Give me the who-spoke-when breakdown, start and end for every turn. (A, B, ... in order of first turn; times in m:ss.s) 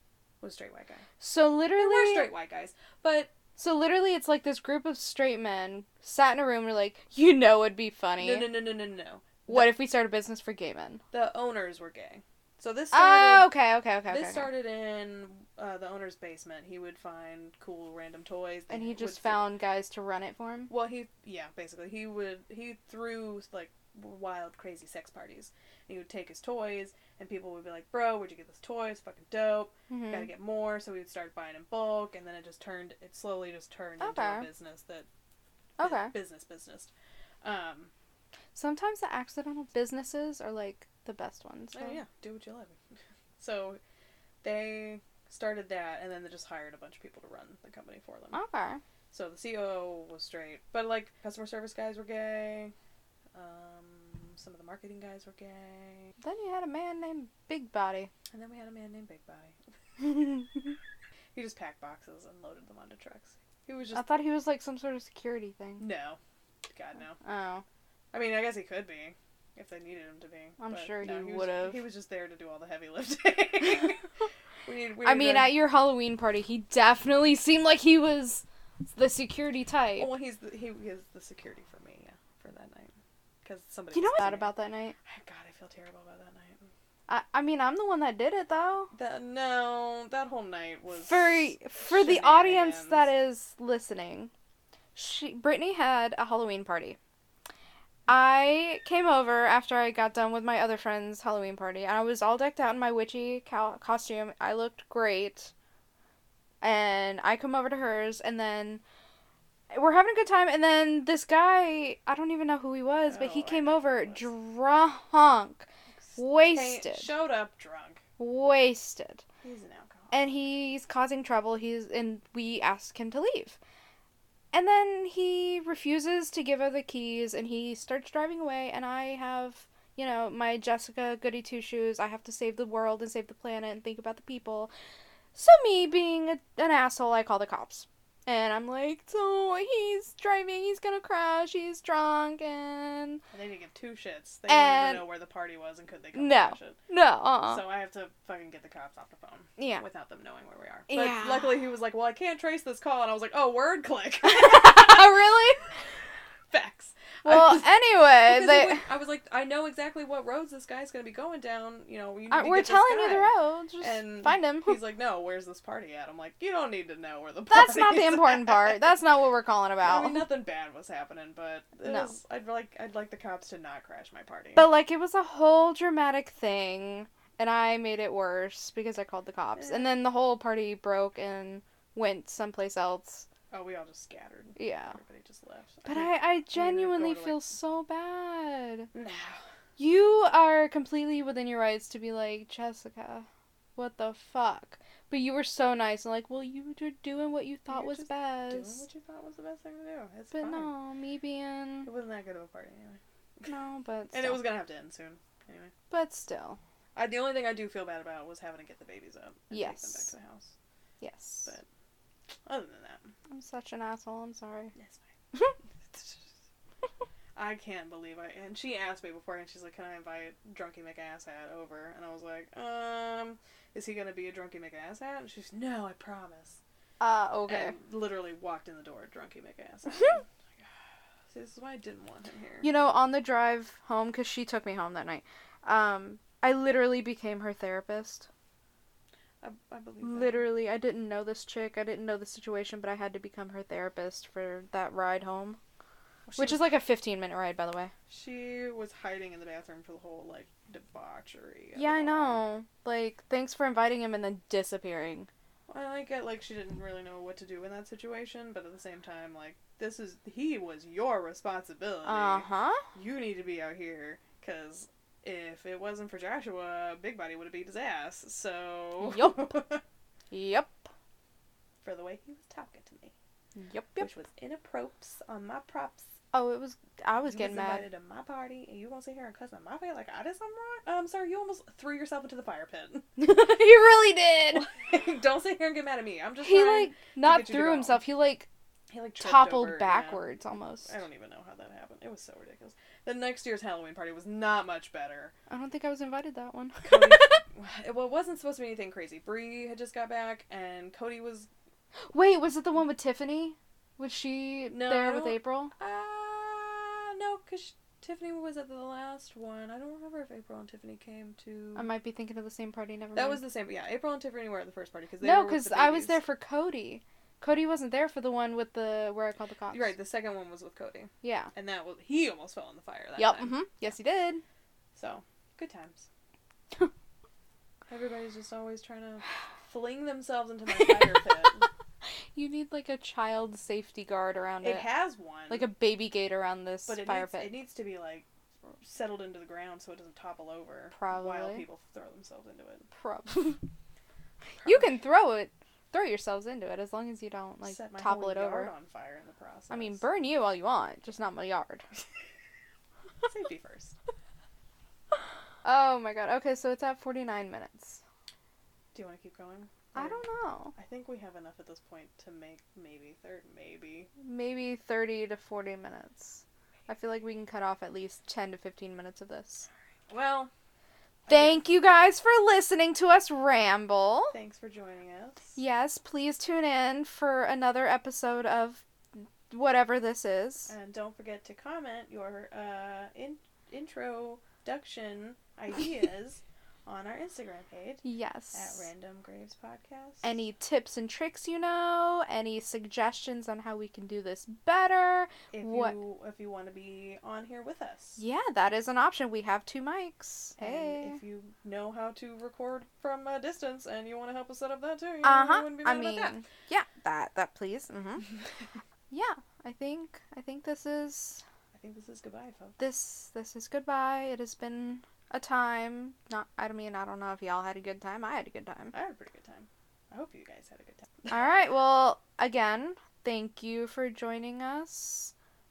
0:00.4-0:01.0 A
0:01.2-0:02.3 B
0:01.8-0:03.3 A
0:03.6-0:08.6 B
0:08.2-0:09.7 A
0:09.5-0:11.0 B
0:11.1-0:13.5 A
0:12.9-0:14.5 B
0:14.1-0:19.5 A
0:18.7-0:20.7 B
0:20.7-0:35.1 A
0:29.9-0:30.3 B
0:34.0-0:34.5 B
0:35.8-0:36.1 B
0:35.8-0:37.9 A
0:38.5-0:42.0 B
0:41.7-0:43.8 A
0:44.4-0:48.4 A
0:48.3-0:48.8 B
0:49.1-0:52.7 A
0:53.3-0:56.1 A
0:56.2-0:58.1 B
0:58.3-0:59.6 A
1:00.0-1:00.4 B
1:01.3-1:04.1 A
1:03.9-1:05.9 B
1:05.8-1:06.2 A
1:06.7-1:07.2 A
1:07.2-1:07.6 B
1:08.1-1:14.1 A
1:10.6-1:11.8 B
1:14.6-1:15.5 A
1:15.0-1:20.1 B
1:20.0-1:24.5 A
1:23.9-1:25.0 B
1:25.1-1:26.7 A
1:27.1-1:28.9 B
1:28.9-1:33.1 A
1:31.0-1:34.3 B
1:35.0-1:37.0 B
1:38.1-1:45.5 B
1:46.6-1:48.8 B
1:49.7-1:57.1 B
1:53.0-1:54.3 A
1:56.0-1:58.0 A
1:58.2-1:59.2 B
1:59.4-2:00.4 A
2:00.1-2:03.6 B
2:04.5-2:14.7 B
2:15.4-2:23.2 B
2:23.3-2:26.8 A
2:24.5-2:25.1 B
2:26.1-2:27.6 B
2:27.4-2:35.2 A
2:29.6-2:29.8 B
2:30.9-2:31.6 B
2:34.2-2:35.6 B
2:36.5-2:37.7 A
2:37.2-2:38.8 B
2:38.2-2:48.8 A
2:42.3-2:44.8 B
2:47.5-2:50.3 B
2:49.8-2:54.7 A
2:51.8-2:52.1 B
2:54.6-3:03.3 B
2:59.6-2:59.9 A
3:03.5-3:07.6 A
3:04.6-3:05.0 B
3:05.9-3:08.9 B
3:08.9-3:09.4 A
3:09.8-3:18.8 B
3:17.7-3:20.7 A
3:20.3-3:21.9 B
3:21.8-3:23.5 A
3:23.5-3:24.5 B
3:24.1-3:25.7 A
3:25.9-3:26.6 B
3:27.0-3:30.5 A
3:29.5-3:30.1 B
3:31.0-3:31.5 B
3:32.5-3:33.1 A
3:33.3-3:34.8 B
3:34.8-3:35.0 A
3:35.8-3:36.3 A
3:37.4-3:46.6 A
3:47.0-3:47.8 B
3:47.5-3:50.6 A
3:51.3-3:52.7 A
3:52.6-3:58.3 B
3:59.4-4:00.5 A
4:00.0-4:05.6 B
4:06.3-4:06.7 A
4:06.4-4:07.9 B
4:08.1-4:12.4 A
4:11.8-4:15.3 B
4:15.7-4:29.8 A
4:22.0-4:22.8 B
4:29.0-4:29.6 B
4:30.3-4:30.9 B
4:31.8-4:33.1 A
4:33.6-4:34.1 B
4:34.0-4:36.2 A
4:36.3-4:37.9 B
4:37.3-4:43.1 A
4:43.2-4:44.7 B
4:44.6-4:48.0 A
4:46.4-4:48.5 B
4:48.9-4:50.2 A
4:49.2-4:50.9 B
4:50.8-4:55.3 A
4:55.5-4:57.4 B
4:56.8-5:01.5 A
5:02.1-5:05.7 B
5:04.7-5:11.9 A
5:11.8-5:13.4 B
5:13.2-5:16.2 A
5:15.2-5:19.9 B
5:19.7-5:23.6 A
5:21.2-5:21.5 B
5:23.2-5:24.4 B
5:25.0-5:26.1 A
5:27.9-5:31.7 A
5:32.4-5:34.9 B
5:34.6-5:35.7 A
5:35.5-5:37.5 B
5:36.9-5:38.3 A
5:38.8-5:42.9 A
5:40.9-5:41.6 B
5:42.9-5:43.6 B
5:44.6-5:44.9 A
5:44.6-5:48.7 B
5:47.6-5:50.0 A
5:49.7-5:51.8 B
5:53.2-5:54.0 A
5:55.6-5:58.0 B
5:58.9-6:00.2 A
6:00.0-6:00.7 B
6:00.8-6:04.1 A
6:04.2-6:09.7 B
6:10.1-6:10.5 A
6:11.3-6:11.6 A
6:11.3-6:14.3 B
6:14.3-6:15.6 A
6:15.6-6:20.7 B
6:20.7-6:30.4 A
6:28.0-6:28.9 B
6:30.2-6:36.0 B
6:35.5-6:38.2 A
6:38.2-6:41.2 B
6:40.6-6:46.4 A
6:45.2-6:48.3 B
6:49.1-6:51.4 B
6:51.7-6:52.8 A
6:52.8-6:58.9 B
6:58.9-7:01.5 A
7:01.3-7:05.3 B